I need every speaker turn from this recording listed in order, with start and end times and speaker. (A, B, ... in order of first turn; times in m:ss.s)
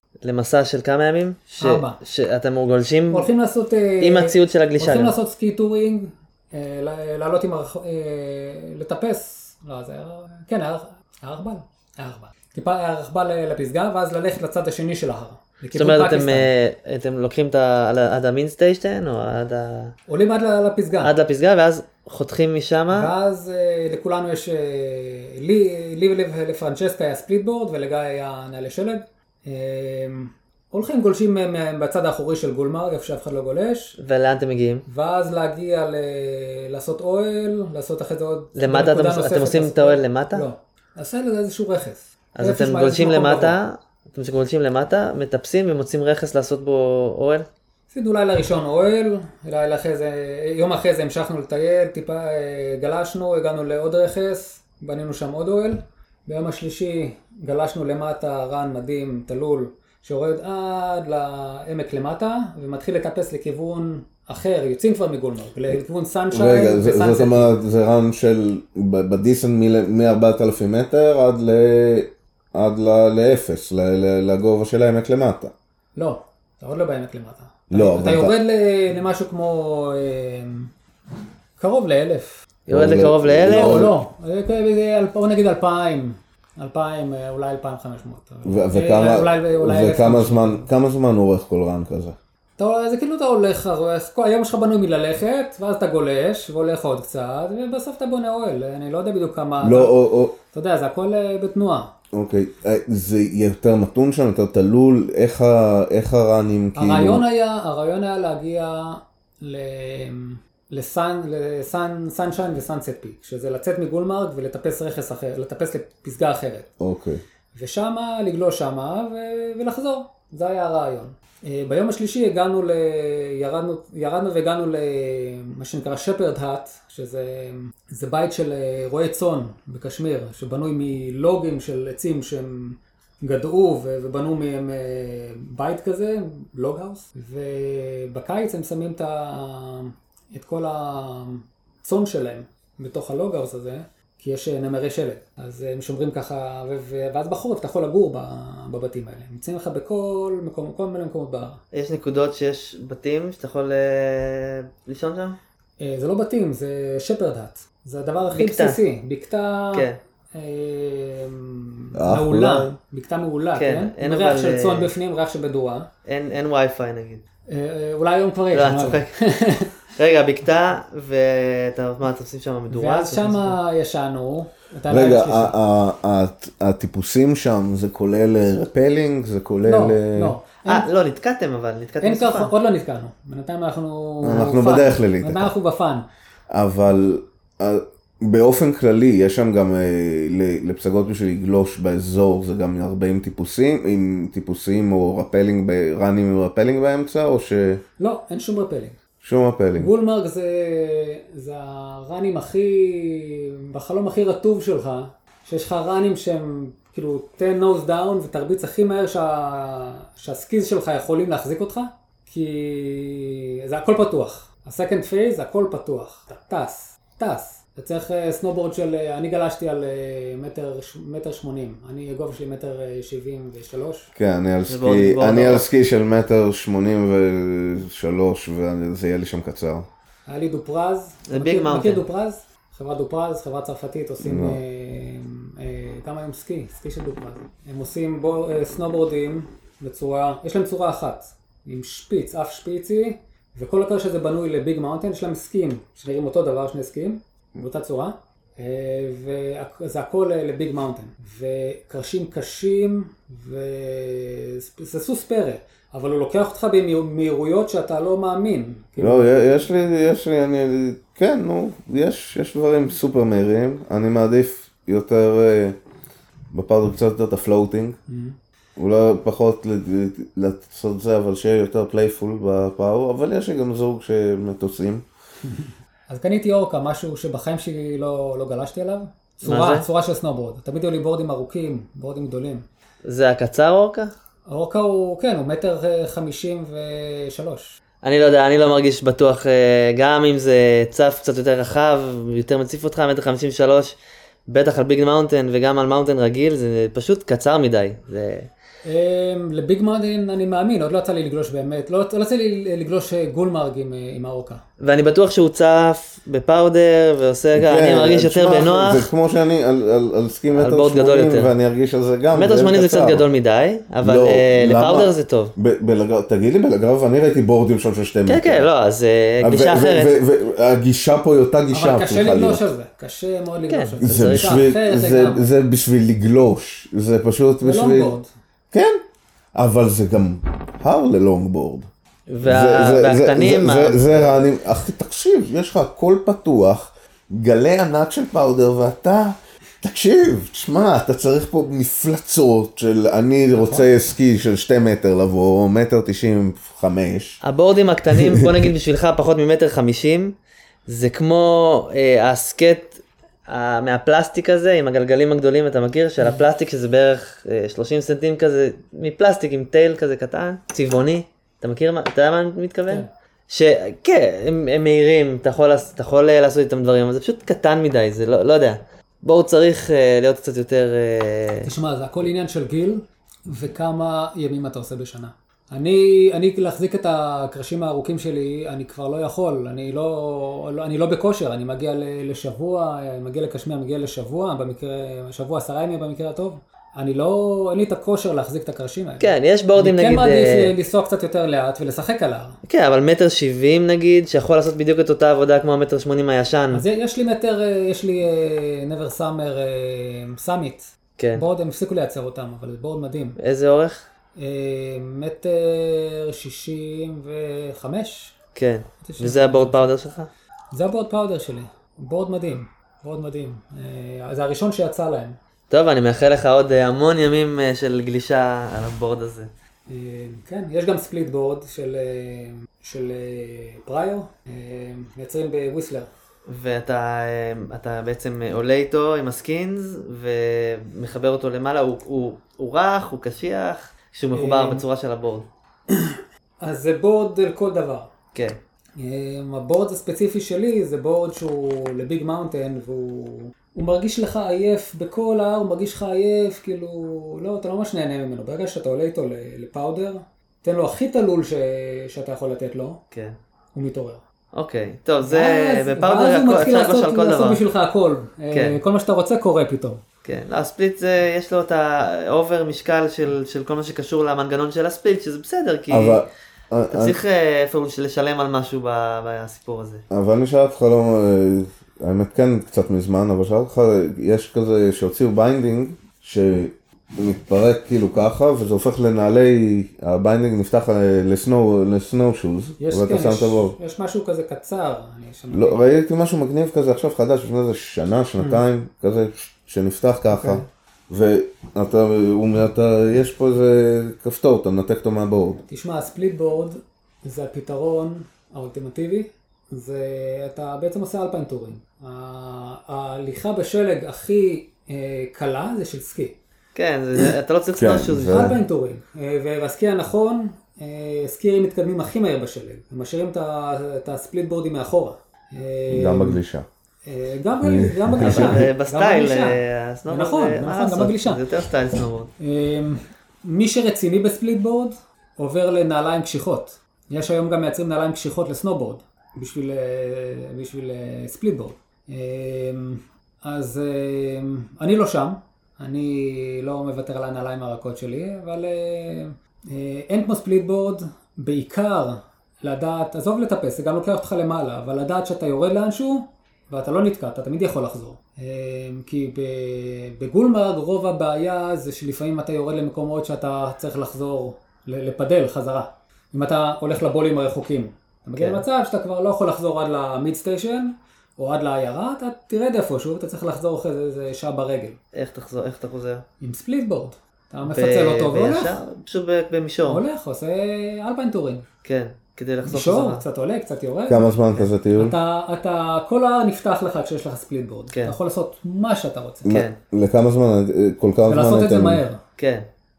0:00.2-0:03.3 A
0:01.6-0:02.0 B
0:03.1-0:16.5 B
0:04.0-0:05.1 A
0:15.7-0:19.9 A
0:20.1-0:21.1 B
0:21.0-0:23.1 A
0:22.9-0:34.0 B
0:34.0-0:34.8 A
0:34.9-0:43.6 B
0:38.6-0:40.5 A
0:42.3-0:47.5 A
0:47.9-1:07.5 B
1:06.3-1:15.5 C
1:16.0-1:20.7 B
1:17.7-1:18.4 C
1:21.6-1:22.5 B
1:22.7-1:23.9 A
1:22.7-1:24.0 C
1:23.4-1:30.7 B
1:28.4-1:32.2 C
1:32.6-1:40.0 B
1:39.6-1:40.4 C
1:40.5-1:41.9 B
1:42.1-1:47.2 C
1:46.8-1:56.7 B
1:56.8-1:57.2 C
1:57.5-2:31.6 B
2:31.7-2:35.4 A
2:35.8-2:45.9 B
2:38.3-2:38.8 A
2:39.7-2:40.0 A
2:41.9-2:42.7 C
2:43.5-2:44.9 A
2:46.0-2:47.2 A
2:47.5-2:49.8 B
2:48.5-2:49.2 A
2:49.9-2:53.6 A
2:52.7-2:55.6 B
2:54.9-3:00.3 C
2:59.6-3:00.9 B
3:00.6-3:02.5 A
3:02.0-3:06.0 B
3:04.2-3:05.5 C
3:06.5-3:17.8 C
3:18.0-3:19.0 B
3:19.2-3:19.9 C
3:19.8-3:44.1 B
3:44.2-3:49.9 C
3:44.7-3:45.7 A
3:50.3-4:19.6 B
3:51.3-3:52.0 A
3:54.2-3:54.6 C
4:19.0-4:25.8 C
4:26.5-4:28.0 C
4:28.1-4:28.4 B
4:28.8-4:35.0 C
4:35.4-4:42.6 B
4:39.4-4:39.8 A
4:43.0-4:44.1 A
4:44.5-4:47.8 B
4:48.0-4:54.0 A
4:54.5-4:58.5 A
4:58.8-5:04.6 B
5:04.8-5:09.1 A
5:07.6-5:13.2 C
5:10.5-5:11.5 A
5:12.3-5:15.5 A
5:14.0-5:18.7 C
5:18.2-5:20.1 A
5:19.4-5:22.7 C
5:21.7-5:25.5 B
5:23.7-5:24.6 A
5:24.0-5:28.2 C
5:27.6-5:28.3 B
5:28.7-5:29.0 C
5:29.5-5:31.9 C
5:32.3-5:34.4 A
5:32.4-5:47.4 C
5:43.5-5:43.9 B
5:47.4-6:11.7 A
5:48.1-5:48.6 C
6:11.6-6:32.6 B
6:29.2-6:30.7 A
6:32.6-6:36.8 A
6:36.7-6:43.4 B
6:41.2-6:41.4 A
6:43.4-6:44.1 A
6:44.4-6:48.3 B
6:48.5-6:50.3 A
6:49.0-6:49.9 B
6:50.7-6:55.4 B
6:55.7-6:59.5 A
6:59.9-7:06.1 B
7:06.5-7:15.5 A
7:14.3-7:14.8 B
7:15.9-7:18.1 B
7:19.0-7:33.0 B
7:33.1-7:33.4 A
7:33.7-7:34.2 B
7:34.5-7:37.6 A
7:35.2-7:40.0 B
7:38.5-7:38.8 A
7:40.2-7:46.2 A
7:45.9-7:47.2 C
7:46.9-7:50.0 A
7:50.1-8:03.8 C
8:02.8-8:05.9 B
8:05.5-8:15.6 C
8:10.3-8:10.6 B
8:15.7-8:26.4 B
8:26.7-8:28.5 A
8:27.7-8:28.6 C
8:28.2-8:36.4 B
8:35.9-8:36.6 C
8:37.0-8:41.4 B
8:37.6-8:38.7 C
8:38.2-8:42.3 A
8:42.4-9:25.0 B
9:18.4-9:18.6 A
9:25.1-9:26.2 A
9:26.4-9:28.8 B
9:27.7-9:30.0 A
9:29.8-9:31.6 B
9:31.8-9:33.2 A
9:32.6-9:34.3 B
9:34.1-9:35.2 C
9:35.0-9:39.6 B
9:39.4-9:42.0 C
9:39.5-9:39.8 A
9:41.2-9:42.2 B
9:42.4-9:42.7 A